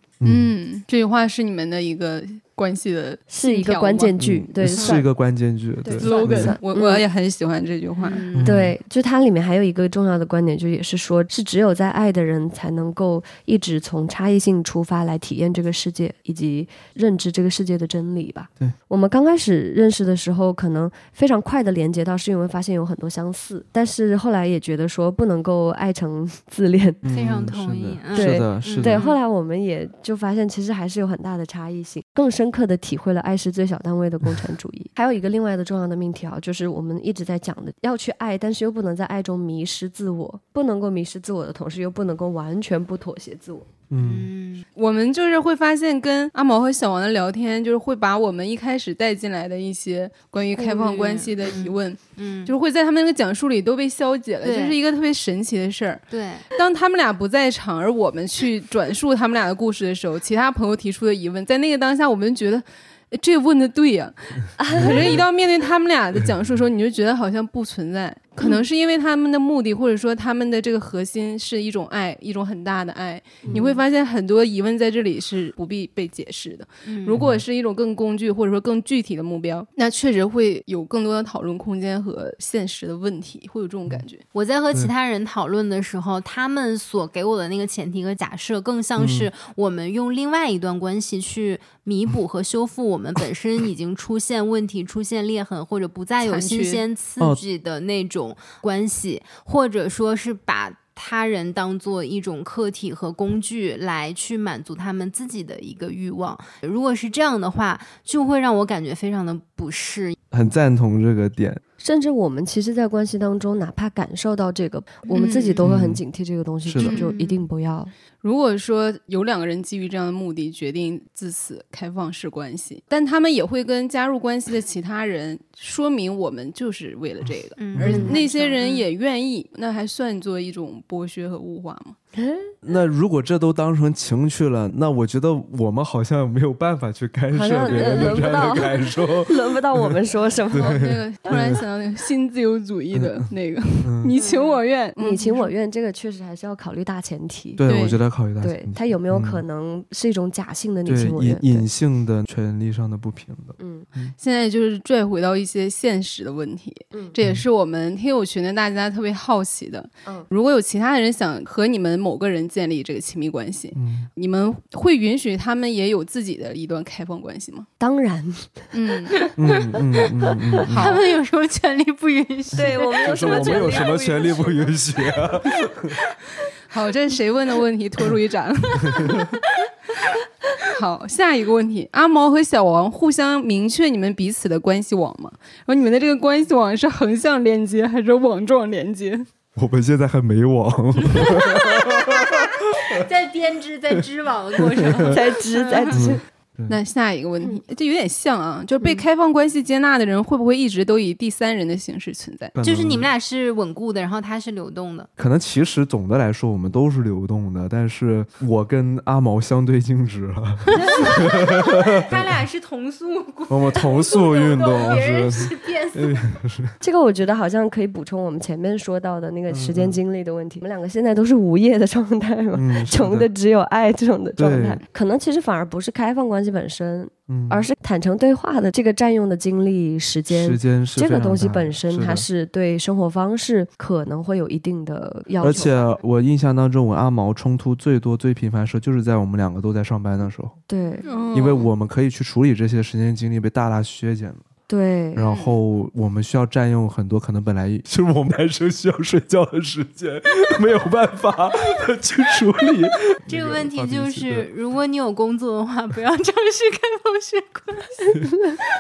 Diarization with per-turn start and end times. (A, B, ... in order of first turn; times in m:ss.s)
0:00.2-0:00.5 A
0:00.2-0:04.2 B
0:03.3-0:05.1 C
0:04.2-0:06.6 A
0:05.8-0:07.0 C
0:06.0-0:08.2 B
0:06.0-0:06.4 D
0:08.0-0:08.6 D
0:08.4-0:08.8 A
0:08.4-0:27.0 C
0:27.0-0:29.0 A
0:27.1-0:29.2 D
0:28.1-0:43.7 C
0:43.9-0:44.3 A
0:44.0-0:44.7 D
0:44.8-1:24.2 B
0:50.6-0:52.5 D
0:54.4-0:54.8 D
0:56.1-0:56.5 D
1:04.6-1:05.1 C
1:04.8-1:05.2 A
1:06.2-1:06.6 A
1:13.4-1:13.8 C
1:16.9-1:17.2 D
1:17.2-1:17.4 A
1:24.3-1:50.2 D
1:29.0-1:29.3 A
1:36.2-1:36.8 B
1:50.3-1:51.6 A
1:51.8-1:57.9 C
1:55.1-1:55.7 B
1:55.6-1:56.0 A
1:56.6-1:57.0 A
1:56.8-1:57.4 D
1:58.2-2:12.0 B
2:07.6-2:08.9 D
2:07.7-2:08.2 A
2:12.2-2:12.5 C
2:12.6-2:20.0 A
2:17.3-2:20.8 C
2:20.5-2:21.6 A
2:20.5-2:25.5 B
2:22.9-2:23.3 A
2:23.8-2:24.2 A
2:24.2-2:24.6 D
2:25.0-2:27.6 C
2:27.6-2:29.4 A
2:27.7-2:28.0 B
2:28.4-2:31.7 C
2:30.9-2:34.2 A
2:33.6-2:33.9 C
2:34.2-2:47.7 B
2:43.7-2:44.1 A
2:47.8-2:48.7 C
2:48.7-2:49.2 B
2:49.2-2:50.0 D
2:49.4-2:51.0 A
2:50.7-2:51.0 B
2:50.7-2:53.9 D
2:52.6-2:54.8 C
2:53.0-2:56.0 A
2:56.7-2:59.3 B
3:00.7-3:09.3 B
3:09.6-3:13.0 A
3:11.3-3:16.0 D
3:14.6-3:15.1 A
3:15.1-3:16.2 C
3:15.9-3:16.8 A
3:16.7-3:22.6 B
3:18.8-3:19.1 D
3:22.6-3:23.1 A
3:22.6-3:25.1 D
3:25.2-3:32.4 A
3:30.7-3:36.4 D
3:33.5-3:36.8 A
3:36.8-3:55.8 C
3:39.5-3:40.0 A
3:42.6-3:43.3 A
3:44.4-3:44.8 A
3:47.3-3:47.7 A
3:50.3-3:52.3 A
3:55.4-4:00.6 A
4:00.7-4:01.1 C
4:01.1-4:01.7 B
4:01.3-4:04.4 A
4:04.7-4:05.3 C
4:05.2-4:14.5 A
4:05.2-4:05.6 B
4:13.3-4:18.2 D